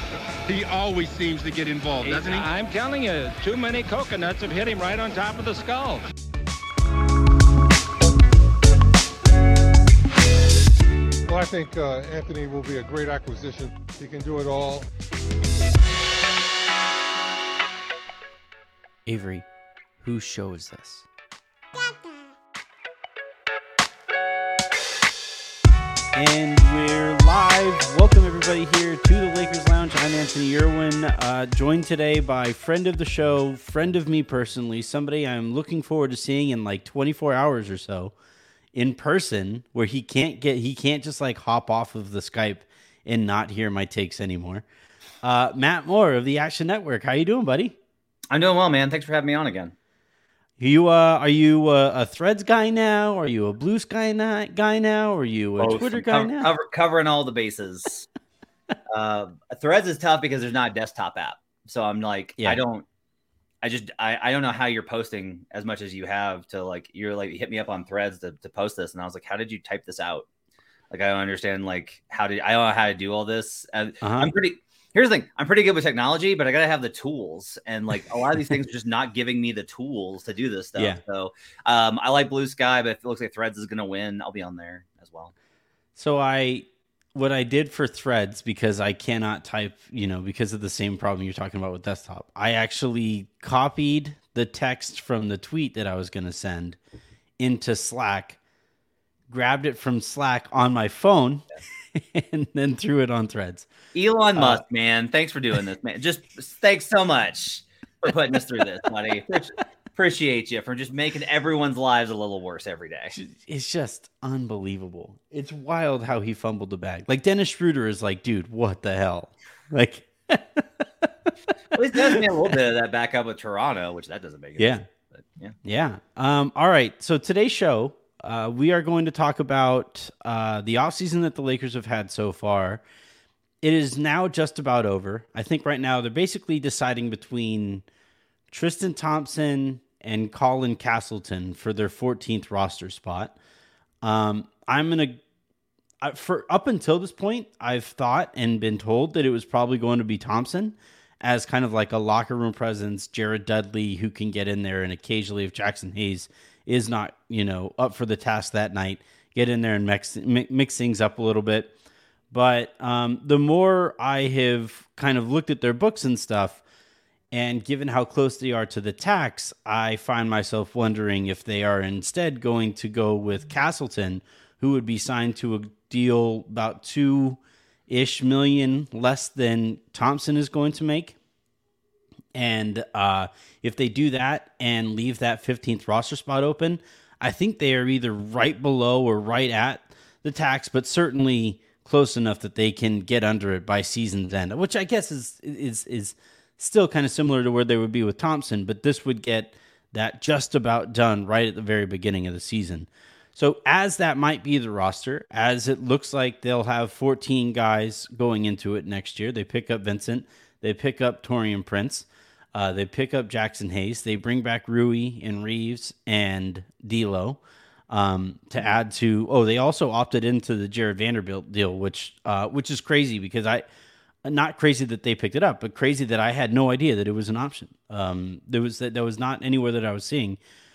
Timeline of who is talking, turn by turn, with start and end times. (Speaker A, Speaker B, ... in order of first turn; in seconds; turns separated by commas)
Speaker A: 0.5-2.5, Speaker B: 2.0-6.0, Speaker C: 11.2-14.9, Speaker D: 19.1-19.5, Speaker D: 20.0-21.1, Speaker D: 26.1-38.1, Speaker D: 38.7-44.6, Speaker D: 45.2-47.8, Speaker E: 48.3-49.7, Speaker D: 50.6-56.5, Speaker E: 55.6-58.1, Speaker E: 58.9-62.9, Speaker E: 63.6-70.3, Speaker E: 70.9-85.3, Speaker D: 74.0-74.3, Speaker D: 86.0-96.8, Speaker D: 97.4-98.4, Speaker D: 99.3-103.7, Speaker E: 103.9-113.1, Speaker D: 104.3-104.6, Speaker D: 113.1-121.3, Speaker E: 121.7-125.5, Speaker D: 124.6-124.8, Speaker D: 125.6-132.8, Speaker D: 133.6-137.8, Speaker D: 138.5-143.3, Speaker D: 144.0-145.2, Speaker D: 146.0-161.7, Speaker D: 162.3-166.6, Speaker D: 167.3-181.2, Speaker D: 182.3-223.6, Speaker D: 224.2-230.4